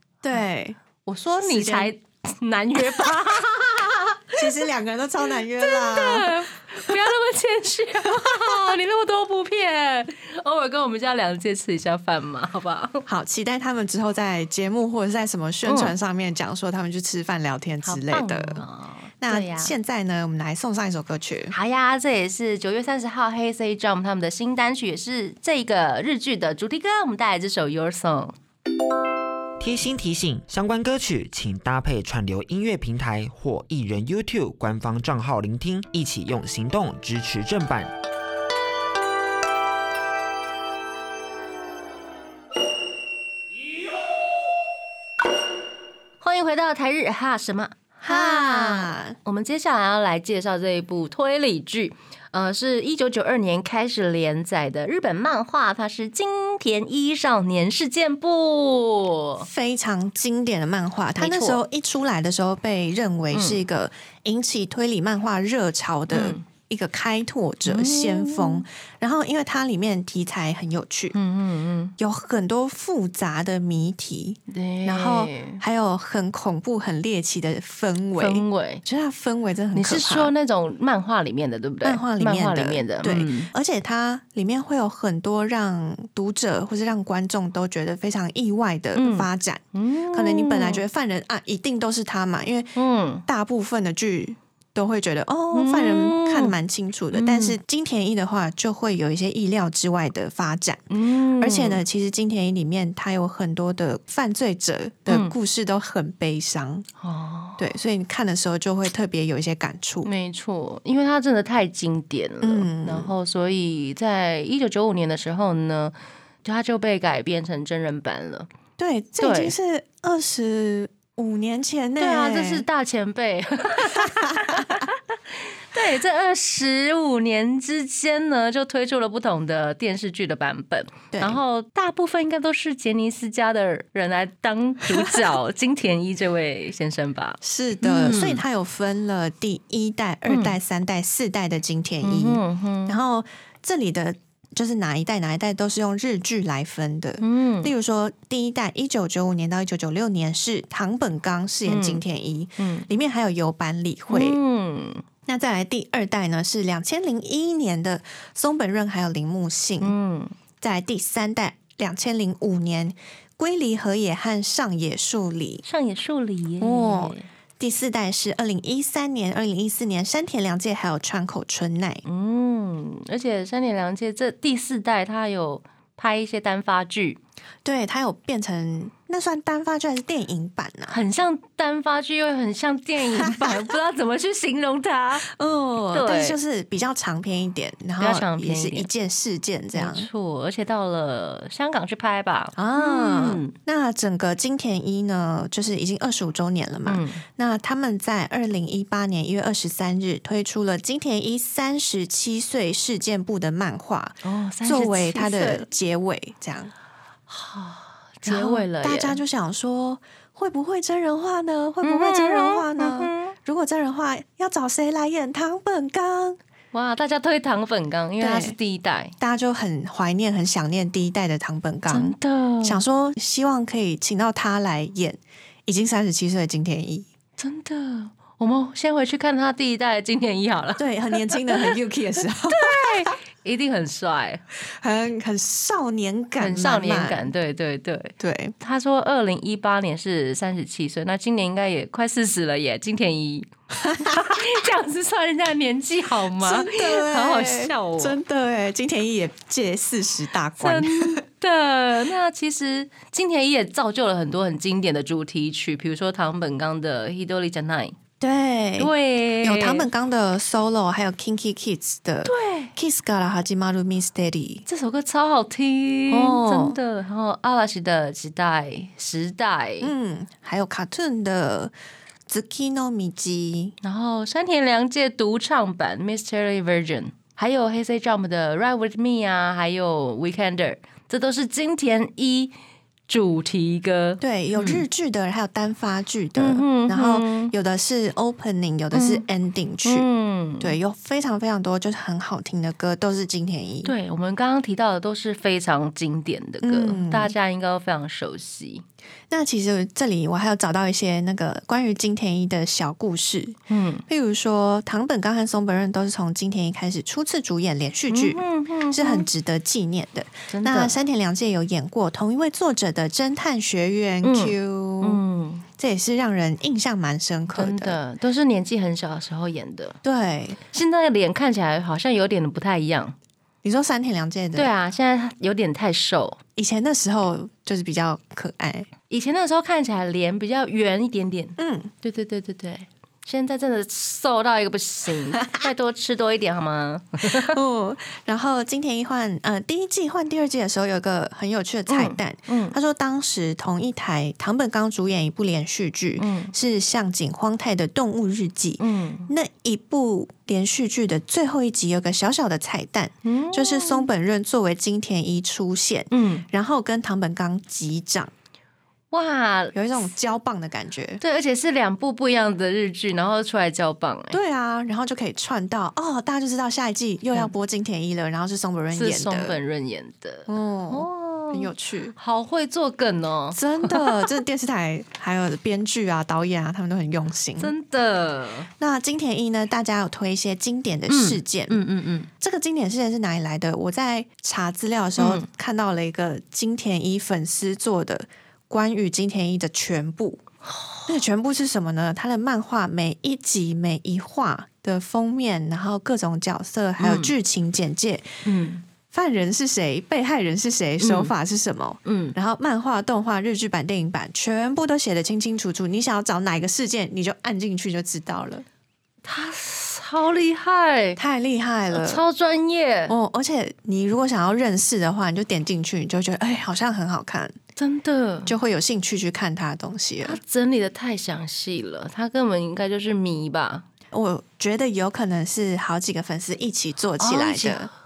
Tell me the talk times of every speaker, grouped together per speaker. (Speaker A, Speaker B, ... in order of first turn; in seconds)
Speaker A: 0.2-0.8, 1.4-1.9, 4.3-6.9, 13.1-18.6, 19.2-21.5, 48.0-49.2, 59.4-71.2, 72.0-80.3, 81.8-100.8, 101.4-106.8, 107.6-110.1, 112.4-113.1, 118.8-122.7, 124.0-124.8, 131.1-131.4, 137.4-154.4, 155.2-159.9, 160.6-165.6, 166.6-172.0, 177.6-181.0, 183.2-183.7, 185.2-190.1, 192.6-206.7, 208.2-216.4, 218.2-218.6, 219.2-227.1, 230.8-233.1, 234.6-237.3, 238.2-238.5, 243.8-244.4, 246.3-251.2, 258.2-264.6, 266.1-266.8, 269.8-271.7, 272.3-273.8, 284.2-290.1, 290.6-293.9, 296.6-297.3, 299.3-315.2, 315.8-318.0, 320.0-320.6, 323.6-324.7, 326.6-328.9, 331.6-331.9, 337.2-358.3, 359.7-361.2, 364.3-369.6, 370.5-372.1, 373.5-377.7, 378.8-381.8, 382.4-390.4, 391.1-398.4, 399.1-408.6, 411.2-412.2, 413.1-417.6, 418.4-420.4, 424.1-427.9
Speaker B: 1.0-4.5, 5.6-13.0, 15.6-15.9, 17.8-19.7, 21.5-28.3, 46.2-59.5, 61.2-61.6, 63.3-63.6, 66.1-66.5, 67.6-68.6, 71.1-71.9, 74.5-75.6, 78.2-78.8, 79.7-83.5, 88.9-90.8, 92.8-93.2, 95.5-96.5, 97.1-97.6, 100.9-101.8, 105.1-105.3, 107.0-107.7, 110.0-118.5, 119.2-119.5, 122.0-125.2, 125.7-138.4, 140.3-140.5, 142.0-143.0, 147.2-147.7, 151.7-152.0, 152.6-152.9, 154.1-155.0, 159.8-160.3, 165.6-167.3, 172.1-177.2, 180.9-185.3, 185.9-186.4, 188.0-188.9, 189.7-193.5, 196.8-197.2, 204.2-205.7, 207.3-209.2, 211.8-213.3, 216.7-219.1, 221.9-222.8, 227.4-231.8, 232.5-234.4, 236.4-243.5, 244.0-248.2, 250.6-257.9, 258.8-259.9, 262.2-262.7, 264.6-269.9, 273.8-282.5, 283.1-284.8, 286.4-287.5, 288.9-289.2, 289.8-290.8, 293.8-298.8, 303.7-304.0, 308.1-309.3, 310.5-310.9, 314.2-315.6, 317.5-320.0, 320.7-323.1, 324.5-326.4, 329.1-337.6, 341.9-342.8, 346.2-346.5, 348.8-349.3, 353.2-354.1, 356.1-356.4, 359.1-360.1, 361.2-364.4, 368.9-374.3, 377.6-378.7, 381.1-382.3, 385.2-385.5, 390.6-391.2, 397.0-397.3, 398.4-398.8, 401.0-401.3, 402.1-402.3, 409.2-411.2, 411.9-413.2, 417.8-418.5, 420.2-423.8, 427.2-427.9
Speaker C: 29.6-37.9